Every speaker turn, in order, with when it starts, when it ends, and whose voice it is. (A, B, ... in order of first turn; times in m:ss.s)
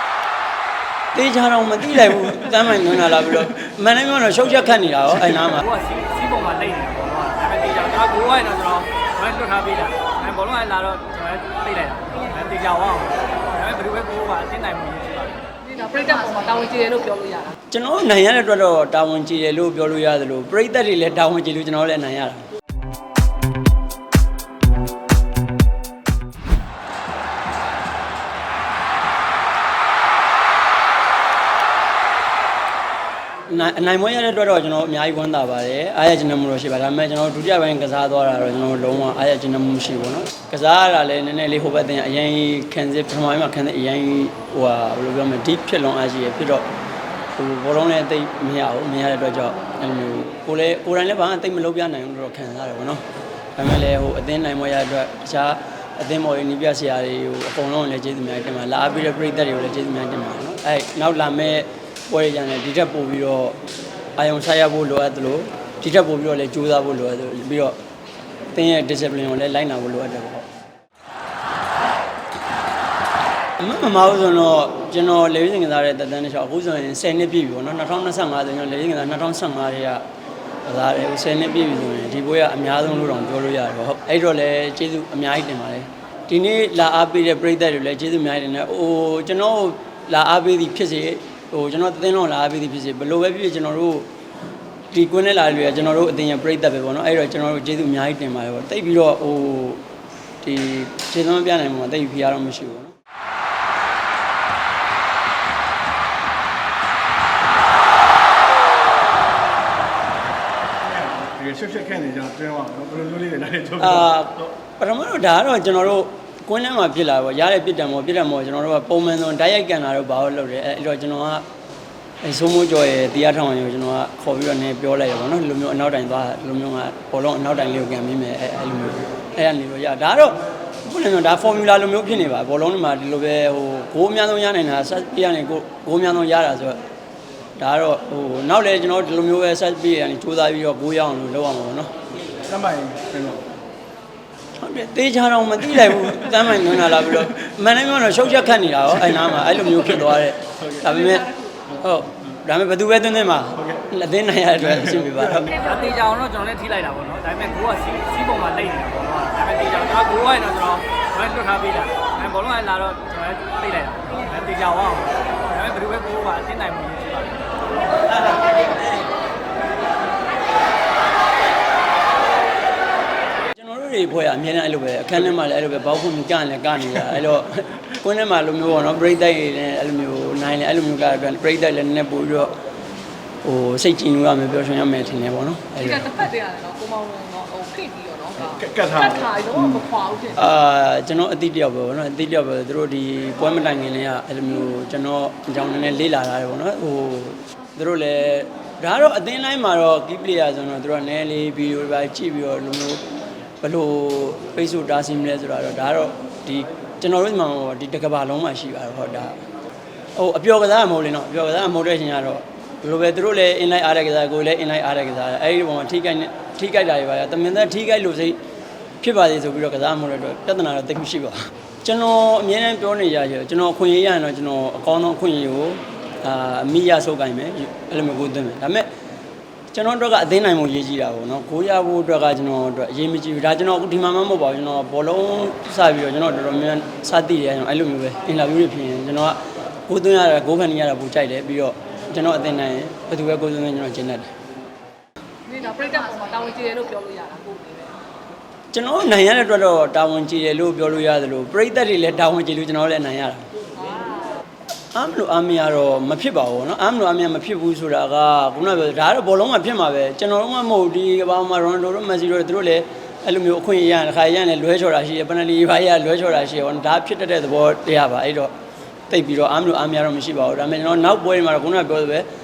0:01.1-0:05.6 A
0:05.3-0:15.4 B
0:15.6-0:17.6 C
0:17.7-0:22.4 A
0:33.5-0:46.6 A
0:47.3-0:53.0 A
0:53.6-1:03.6 A
1:04.2-1:07.8 A
1:08.5-1:10.5 A
1:13.6-1:20.0 A
1:20.6-1:34.1 A
1:34.9-1:39.8 A
1:40.4-1:42.9 A
1:50.8-1:54.1 D
1:53.8-2:01.4 A
2:02.2-2:16.8 A
2:17.6-2:21.9 A
2:22.5-2:23.4 D
2:24.6-2:35.6 A
2:30.6-2:30.8 D
2:35.0-2:35.4 D
2:35.5-2:47.5 B
2:53.6-3:02.5 A
3:03.4-3:06.3 A
3:05.8-3:10.4 C
3:08.4-3:09.8 D
3:10.3-3:23.0 A
3:23.6-3:29.4 A
3:30.1-3:38.4 A
3:39.0-3:48.9 A
3:49.7-4:04.3 A
4:05.4-4:08.0 C
4:08.7-4:13.4 A
4:13.8-4:14.3 C
4:14.9-4:28.5 A
4:29.1-4:32.3 A